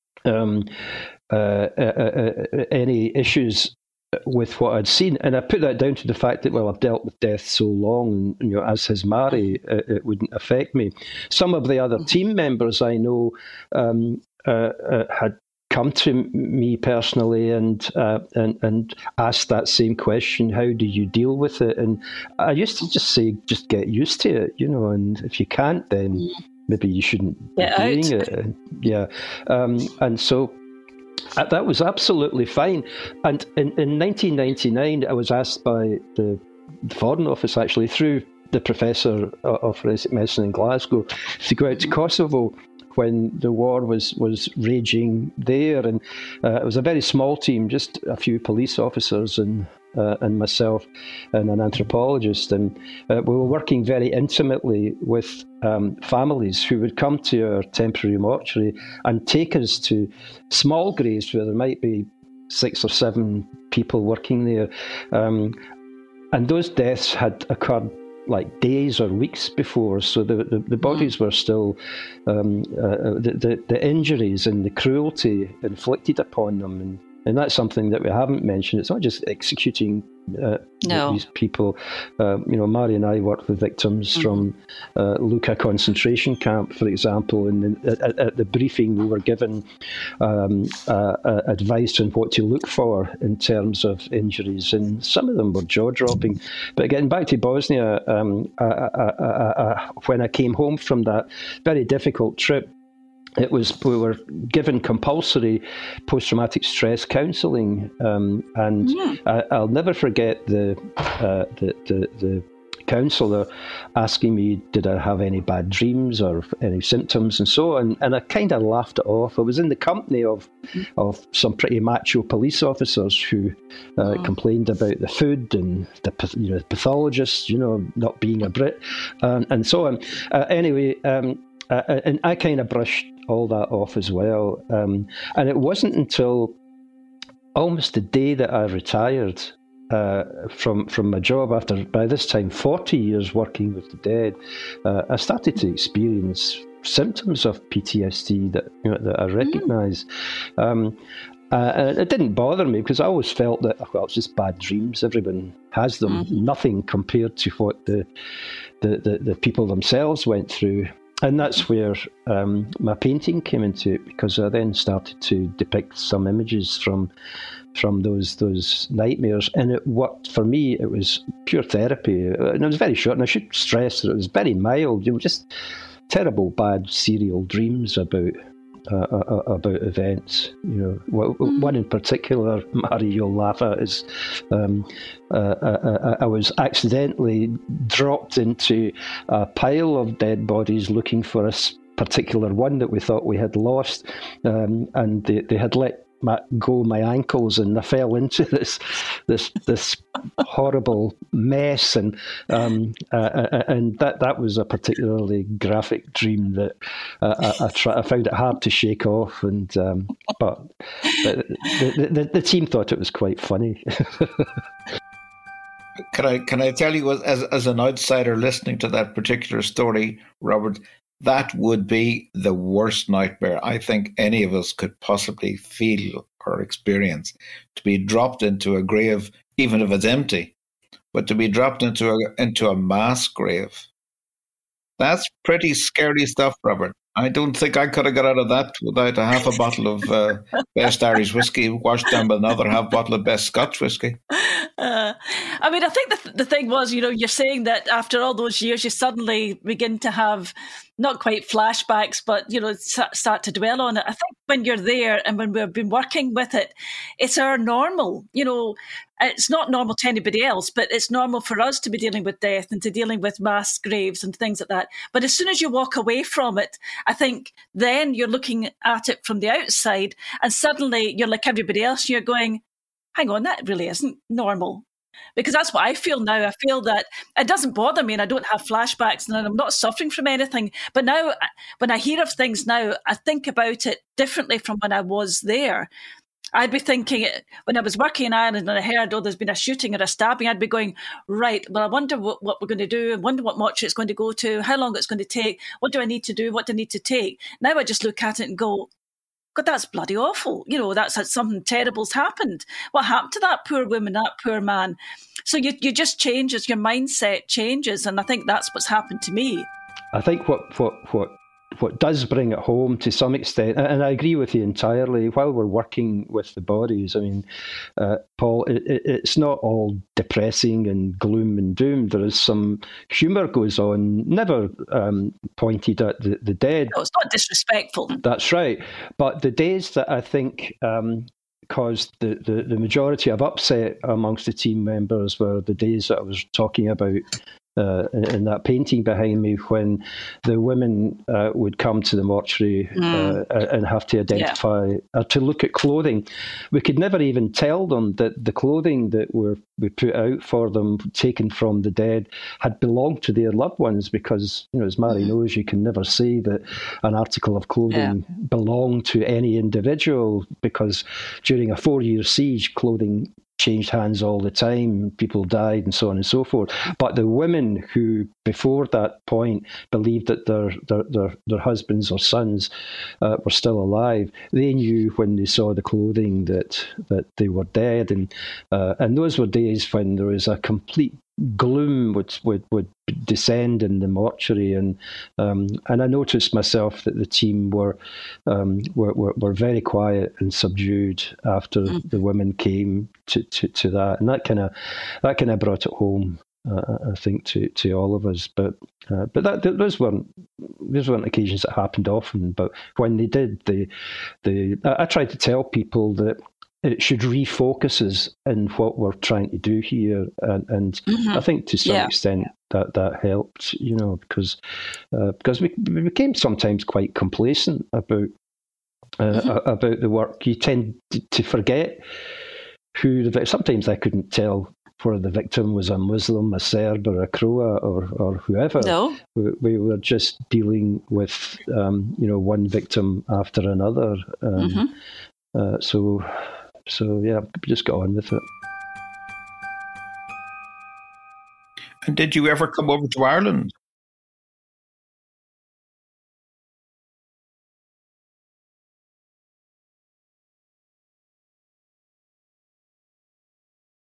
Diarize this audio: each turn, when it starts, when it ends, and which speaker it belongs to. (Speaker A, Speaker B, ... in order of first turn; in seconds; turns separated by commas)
Speaker A: 0.2-30.6, Speaker B: 27.6-28.2, Speaker A: 31.3-65.6, Speaker A: 66.3-89.6, Speaker B: 80.8-81.2, Speaker A: 90.2-102.7, Speaker A: 103.4-136.6, Speaker B: 108.8-109.2, Speaker A: 137.5-150.1, Speaker A: 150.6-151.0, Speaker A: 151.5-158.1, Speaker A: 158.8-167.1, Speaker A: 167.7-175.5, Speaker A: 176.1-178.3, Speaker A: 178.9-214.5, Speaker C: 216.1-230.5, Speaker C: 231.1-233.9, Speaker C: 235.0-244.2, Speaker B: 244.3-272.6, Speaker B: 273.1-274.8, Speaker B: 275.4-285.9, Speaker B: 286.5-298.9, Speaker B: 299.5-309.7, Speaker A: 310.1-317.4, Speaker A: 318.0-326.9, Speaker B: 326.9-328.2, Speaker A: 328.2-337.2, Speaker A: 337.8-403.9, Speaker B: 342.9-343.4, Speaker A: 404.4-414.6, Speaker B: 411.1-412.1, Speaker A: 415.1-418.3, Speaker A: 419.2-422.0, Speaker A: 422.9-434.9, Speaker B: 428.8-429.2, Speaker B: 434.6-434.9, Speaker A: 435.5-438.4, Speaker C: 442.0-443.7